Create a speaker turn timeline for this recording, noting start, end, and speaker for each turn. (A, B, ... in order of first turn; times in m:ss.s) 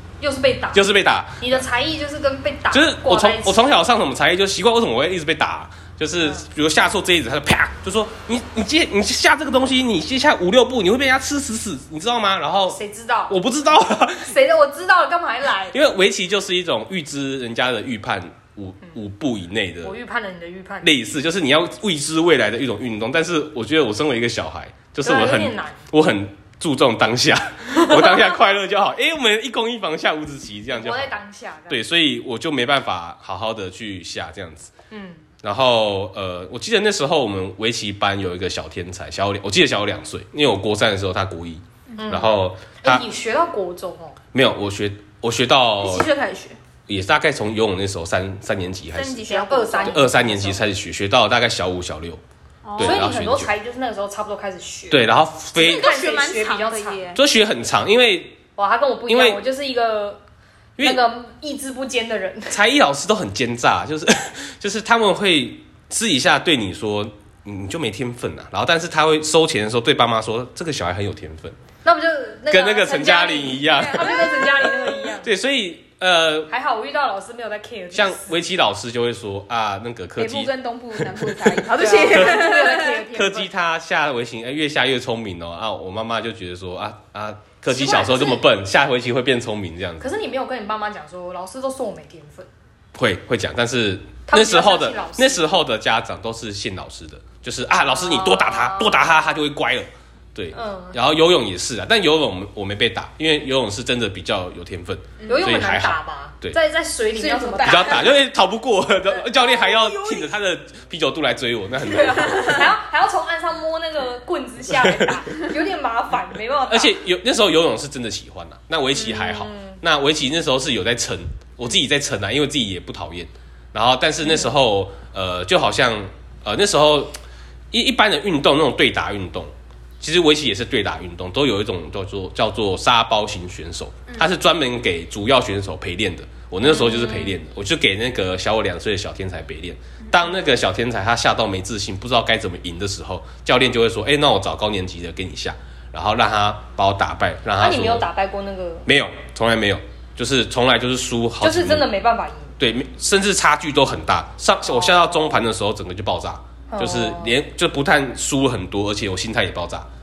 0:00.2-0:00.9 A
0:00.7-0:01.6 B
0:01.4-0:03.6 A
0:02.7-0:14.3 B
0:12.7-0:13.4 A
0:14.2-0:15.8 A
0:15.7-0:20.0 B
0:19.8-0:20.9 A
0:20.8-0:31.2 B
0:25.0-0:25.8 A
0:27.8-0:28.2 A
0:30.7-0:31.8 A
0:31.7-0:34.7 B
0:34.9-0:35.2 A
0:35.4-0:43.0 B
0:42.0-0:44.2 A
0:44.3-0:46.1 B
0:45.8-0:46.6 C
0:46.9-0:49.2 B
0:48.9-0:50.1 C
0:49.3-0:50.6 A
0:49.8-0:52.2 B
0:52.6-0:53.1 C
0:52.8-0:53.5 B
0:52.8-0:55.1 A
0:54.9-0:55.9 B
0:55.6-0:57.2 C
0:55.6-0:57.1 A
0:57.2-0:58.4 B
0:58.6-1:00.2 A
0:59.1-0:59.4 B
1:00.8-1:02.6 A
1:02.5-1:11.6 B
1:11.8-1:15.3 A
1:12.5-1:16.5 B
1:13.7-1:14.5 C
1:16.5-1:18.3 A
1:17.9-1:30.1 B
1:20.2-1:23.1 C
1:21.8-1:23.5 A
1:27.7-1:28.4 A
1:30.0-1:32.5 A
1:33.0-1:46.6 B
1:34.3-1:35.6 A
1:37.9-1:39.2 A
1:40.5-1:41.0 A
1:45.2-1:45.5 C
1:45.3-1:48.1 A
1:47.1-1:48.1 C
1:47.6-1:52.7 B
1:49.2-1:50.2 A
1:51.9-1:57.0 A
1:52.2-1:52.6 C
1:54.7-1:55.2 B
1:56.7-2:07.2 B
1:59.0-1:59.8 A
2:04.2-2:04.5 A
2:07.7-2:28.1 B
2:16.9-2:17.3 A
2:27.6-2:28.9 A
2:28.9-2:31.9 B
2:31.4-2:32.5 A
2:32.6-2:39.9 B
2:34.8-2:35.1 A
2:36.7-2:37.4 A